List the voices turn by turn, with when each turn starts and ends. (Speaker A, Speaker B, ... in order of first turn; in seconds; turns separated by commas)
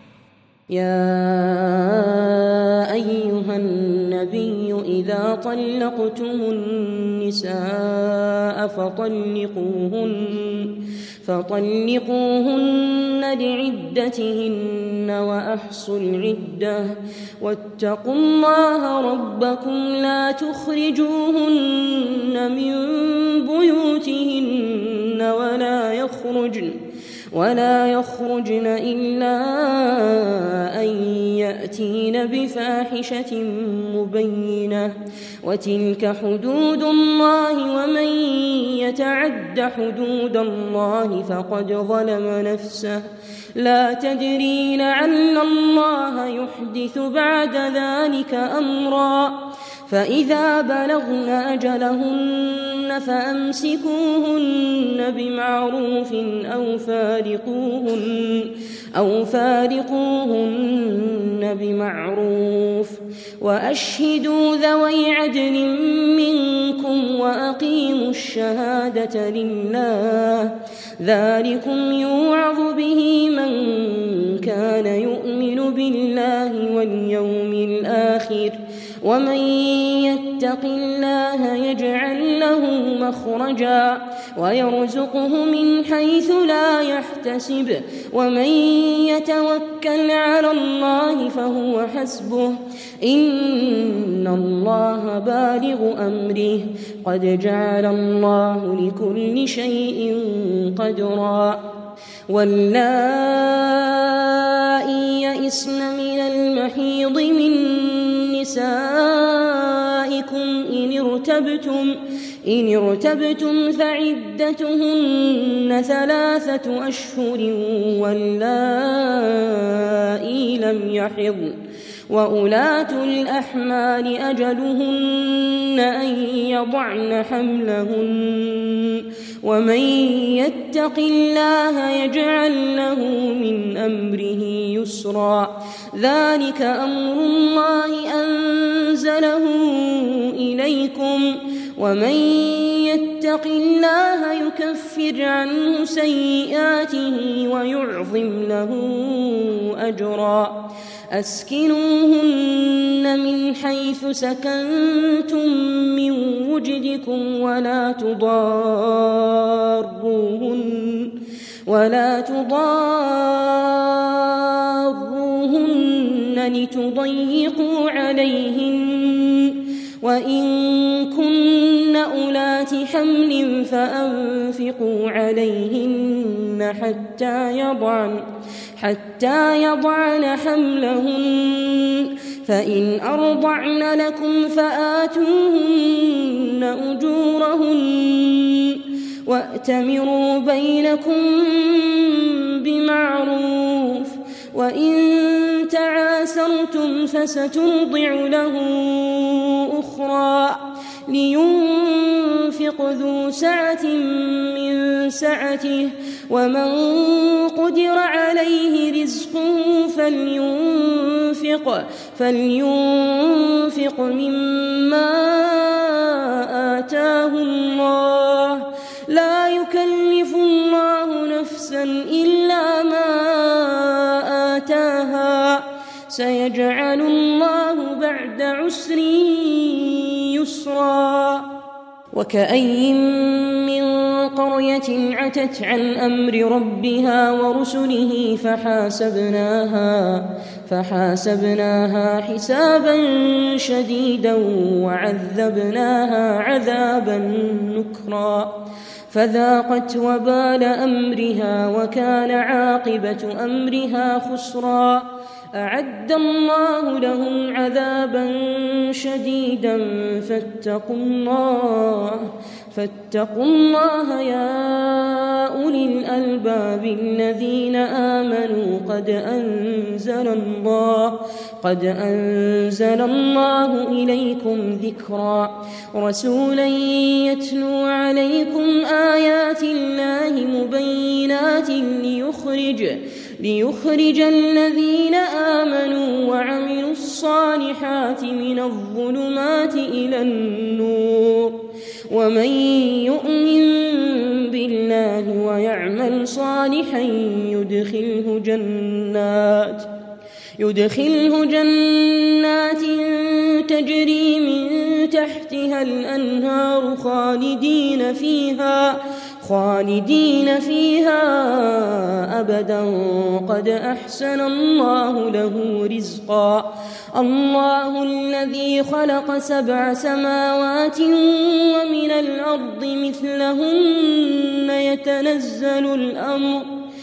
Speaker A: 0.7-26.8, Speaker A: 27.3-101.8, Speaker A: 102.3-178.2, Speaker A: 178.8-231.6, Speaker A: 232.1-299.9, Speaker A: 300.6-326.7